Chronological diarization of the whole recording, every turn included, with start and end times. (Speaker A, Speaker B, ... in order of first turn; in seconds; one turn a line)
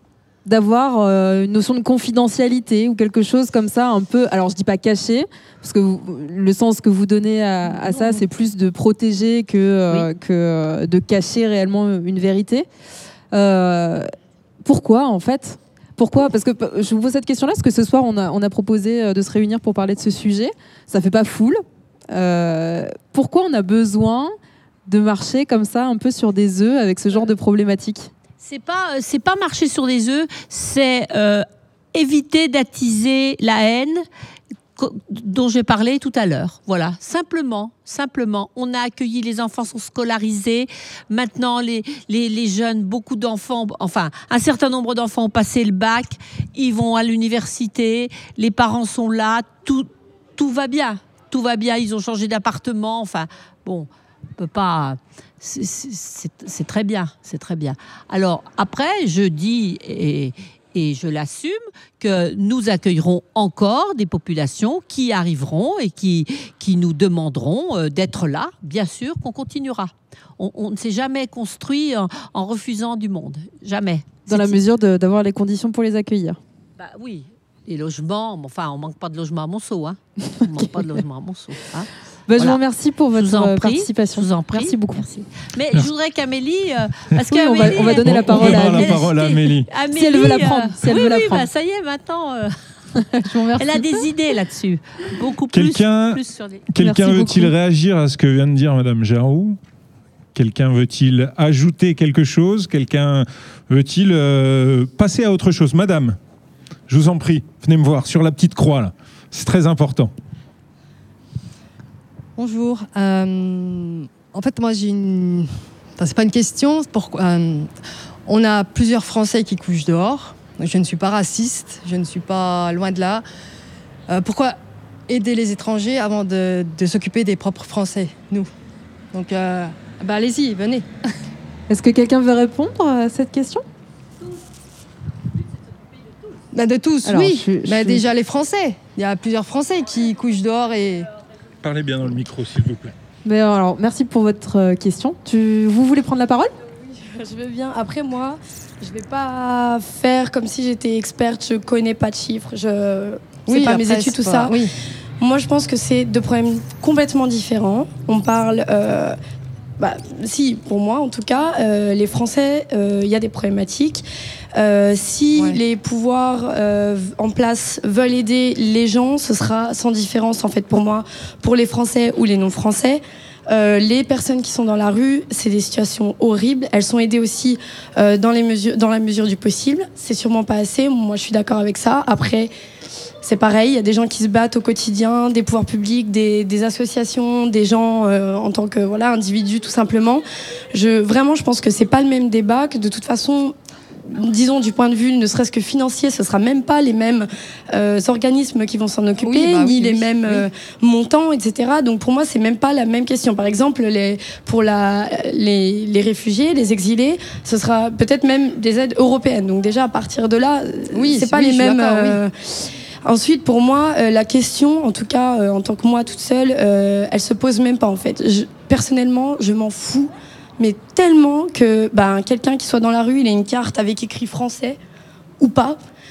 Speaker A: 0.5-12.7
Speaker B: 7.7-8.2
Speaker A: 13.3-14.1
Speaker A: 14.6-24.3
Speaker A: 24.9-28.1
Speaker B: 28.4-34.0
Speaker B: 34.8-74.6
Speaker A: 74.3-76.4
Speaker B: 76.8-96.7
Speaker A: 80.5-80.9
Speaker A: 82.3-85.1
Speaker A: 87.3-89.1
Speaker C: 88.0-89.7
Speaker A: 89.9-91.5
Speaker A: 93.1-94.0
Speaker C: 95.5-99.6
Speaker A: 96.8-97.5
Speaker C: 100.3-106.2
Speaker C: 106.9-110.1
Speaker D: 112.4-117.7
Speaker D: 118.3-123.2
Speaker D: 124.1-128.5
Speaker D: 129.1-130.9
Speaker A: 131.7-133.6
Speaker D: 136.5-141.1
Speaker A: 137.1-138.0
Speaker C: 141.6-142.9
Speaker A: 143.2-146.5
Speaker E: 147.0-154.6
Speaker D: 153.5-154.7
Speaker E: 155.2-159.2
Speaker E: 159.8-182.5
Speaker E: 183.2-193.6
Speaker E: 194.1-224.8
Speaker D: 199.2-200.5
Speaker D: 210.9-212.2
Speaker E: 225.4-225.8